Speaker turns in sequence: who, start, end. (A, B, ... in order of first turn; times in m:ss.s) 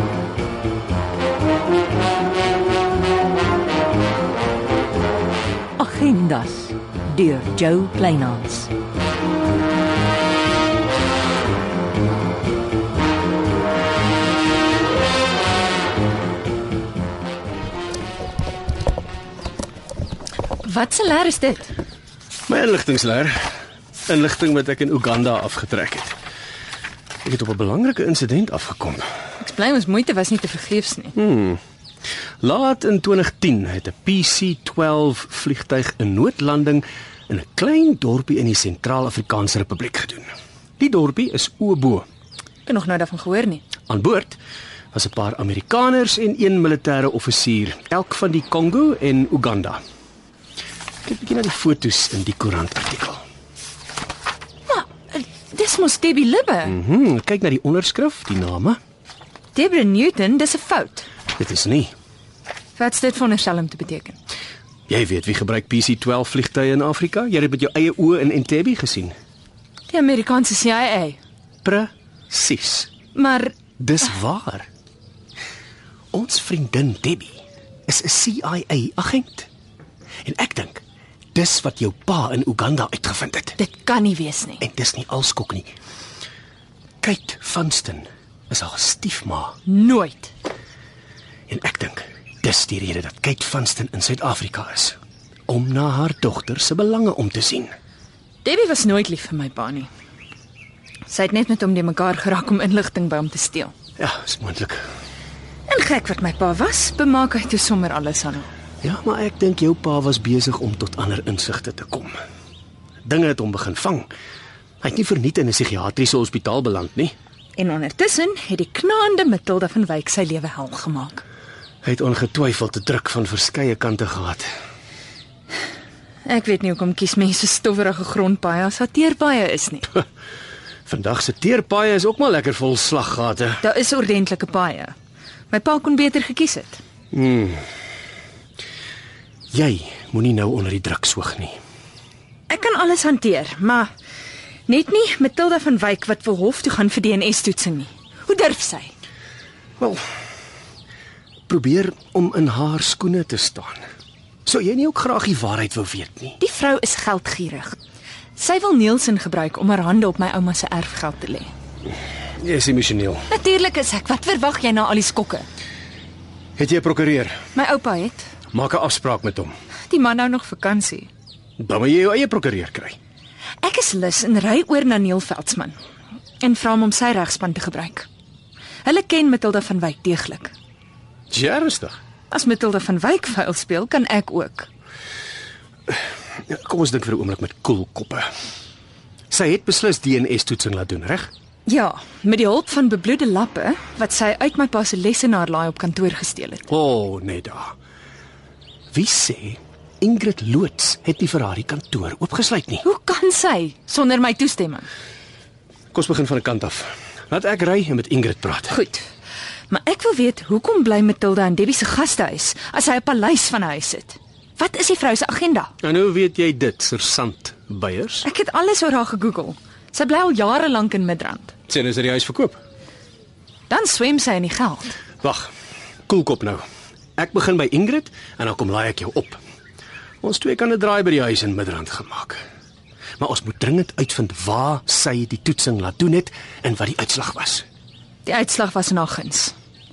0:05.8-0:08.7 A
0:20.6-0:21.7 B
0:22.5-0:23.5 C
0:24.1-0:26.1 C
0:27.2-0:29.0 C
0:29.4-0:31.1 B
0:31.1-0:31.6 C
0:32.4-0:42.0 C
0:42.7-0:43.6 B
0:43.8-0:44.4 C
0:44.9-0:49.8 C
0:51.0-0:53.2 C
0:54.7-0:56.7 B
0:56.6-0:58.8 C
0:59.5-1:01.1 B
1:01.3-1:01.9 C
1:02.8-1:04.2 B
1:04.9-1:09.1 C
1:09.9-1:11.2 B
1:11.6-1:13.0 C
1:13.1-1:13.6 B
1:13.7-1:14.7 C
1:16.1-1:19.5 C
1:20.2-1:20.8 C
1:21.3-1:23.6 C
1:23.6-1:24.6 B
1:24.6-1:25.7 C
1:27.0-1:29.6 C
1:29.7-1:30.3 B
1:31.5-1:37.7 C
1:38.4-1:39.9 B
1:41.1-1:43.7 B
1:44.0-1:44.8 C
1:45.7-1:48.5 B
1:48.8-1:52.2 C
1:53.0-1:54.1 C
1:54.8-1:57.1 C
1:57.6-2:01.2 B
2:01.8-2:04.4 C
2:06.2-2:09.8 B
2:10.8-2:13.7 C
2:13.6-2:14.9 B
2:15.5-2:16.8 B
2:17.1-2:17.6 C
2:19.5-2:21.6 C
2:22.5-2:23.9 B
2:24.7-2:28.9 B
2:29.8-2:30.1 C
2:31.5-2:33.8 C
2:34.4-2:36.4 C
2:36.4-2:37.8 B
2:38.4-2:41.5 B
2:42.4-2:43.3 C
2:43.3-2:45.4 B
2:46.6-2:47.4 C
2:47.6-2:48.2 B
2:48.5-2:49.5 C
2:49.9-2:51.1 B
2:51.6-2:53.0 C
2:53.6-2:55.8 B
2:56.4-2:58.1 B
2:58.8-3:00.5 B
3:01.3-3:02.0 C
3:02.3-3:04.7 B
3:05.9-3:08.3 C
3:09.3-3:11.3 C
3:11.7-3:16.6 B
3:16.7-3:17.7 C
3:18.9-3:22.9 C
3:22.8-3:24.9 B
3:25.9-3:28.8 C
3:28.7-3:29.0 B
3:29.7-3:35.7 B
3:35.8-3:38.3 C
3:38.2-3:41.5 B
3:41.7-3:42.6 C
3:43.7-3:44.9 B
3:45.2-3:45.5 C
3:46.1-3:46.6 C
3:47.2-3:49.4 C
3:50.2-3:52.4 C
3:53.2-3:57.6 C
3:58.2-3:59.5 B